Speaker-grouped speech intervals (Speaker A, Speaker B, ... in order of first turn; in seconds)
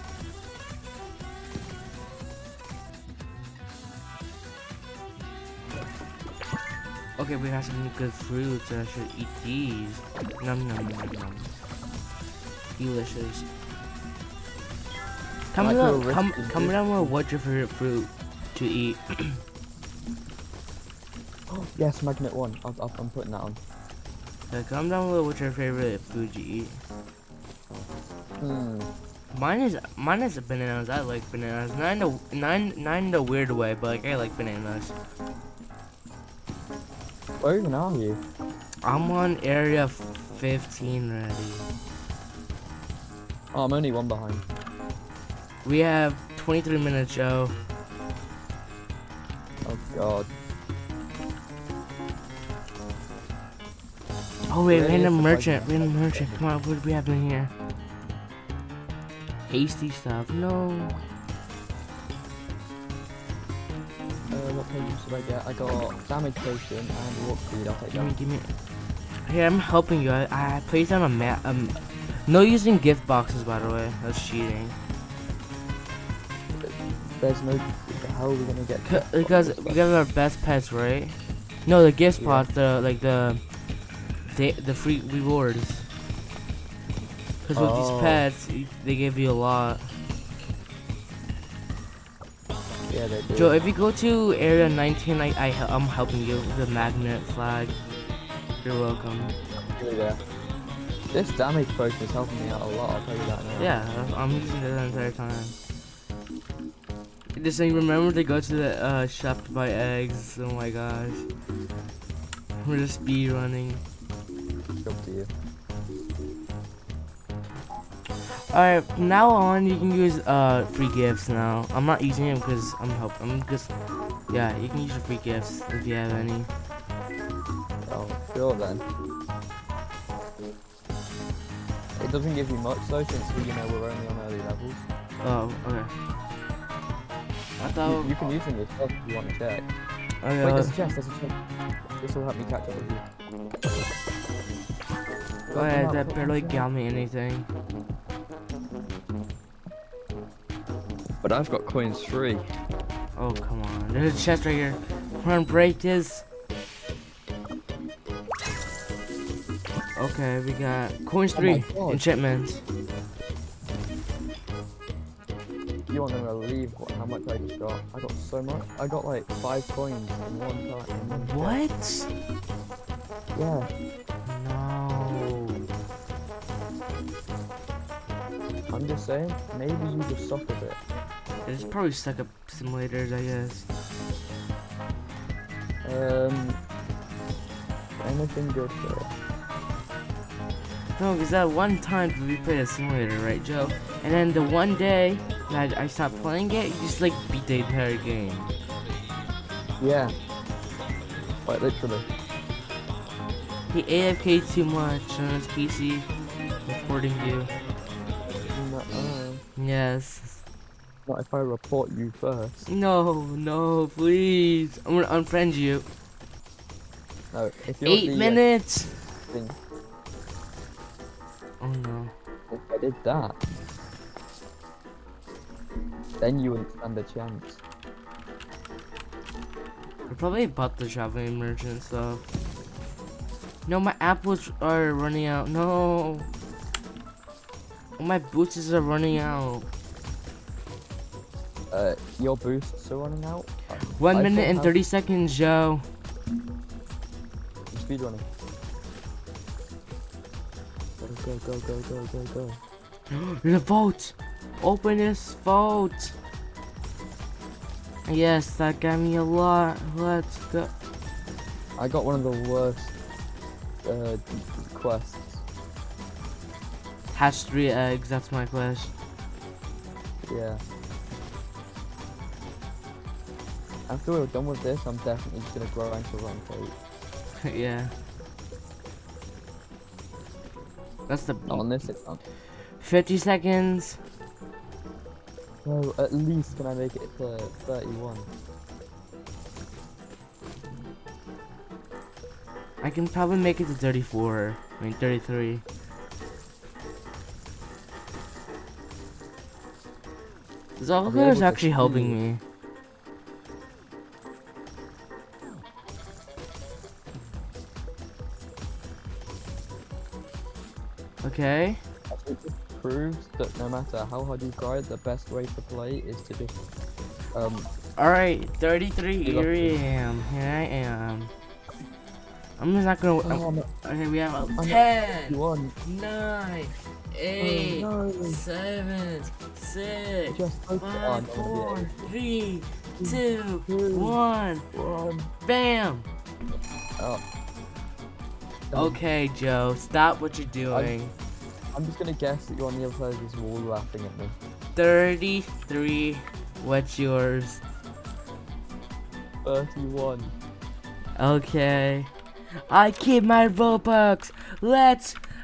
Speaker A: 7.2-11.5, 12.8-13.5, 15.5-19.4, 24.5-26.8, 29.3-35.0, 38.8-41.7, 45.6-47.6, 54.5-57.5, 59.5-61.0, 67.9-68.5, 69.2-74.8, 78.8-83.5, 84.3-85.9, 87.4-89.9, 93.3-97.8, 98.6-99.4, 103.6-105.5, 107.4-111.3, 112.6-113.8, 118.5-123.8, 124.3-126.5, 135.2-135.9, 137.6-138.1, 140.2-140.8, 145.5-147.5, 153.2-156.2, 159.9-162.7, 171.2-172.1, 174.3-175.6, 181.4-183.7, 191.0-198.5, 203.7-206.1, 206.7-207.5, 209.6-210.4, 212.7-215.9, 217.8-219.0, 221.6-222.1, 230.1-232.3, 233.7-236.3, 238.0-239.7, 243.8-245.8, 253.1-256.2, 258.1-260.7, 267.1-268.9, 277.4-277.9, 281.1-281.9, 282.8-284.0, 292.8-295.6, 300.8-302.4, 311.2-311.8, 318.0-321.3, 322.6-334.7, 335.4-336.1, 338.7-341.1, 344.8-347.6, 351.2-352.1, 352.7-355.2
Speaker B: 15.6-17.1, 21.5-23.6, 28.4-28.9, 37.4-38.2, 43.5-44.4, 49.6-50.3, 54.7-56.5, 64.3-68.2, 76.6-79.8, 82.2-82.5, 87.5-88.3, 92.9-93.6, 99.6-100.2, 101.1-103.8, 114.8-115.3, 127.9-128.8, 132.0-134.8, 137.8-139.7, 140.4-141.3, 142.0-143.1, 145.5-146.7, 151.2-152.5, 161.3-162.1, 165.9-171.6, 173.3-173.7, 178.7-180.8, 185.8-186.6, 188.0-189.1, 199.8-200.2, 201.4-202.1, 208.2-209.4, 211.1-212.7, 217.3-218.5, 219.3-219.6, 222.5-223.4, 226.2-227.6, 241.7-244.8, 247.7-248.2, 251.0-252.6, 261.8-262.9, 263.8-265.4, 270.3-270.6, 273.9-276.7, 281.5-282.2, 285.6-288.3, 301.0-302.2, 312.1-316.6, 317.3-317.7, 319.2-319.8, 323.2-323.7, 324.6-325.8, 327.4-328.4, 330.3-332.1, 333.0-334.2, 334.7-335.3, 338.7-339.0, 340.7-341.0, 341.7-344.4, 349.4-350.4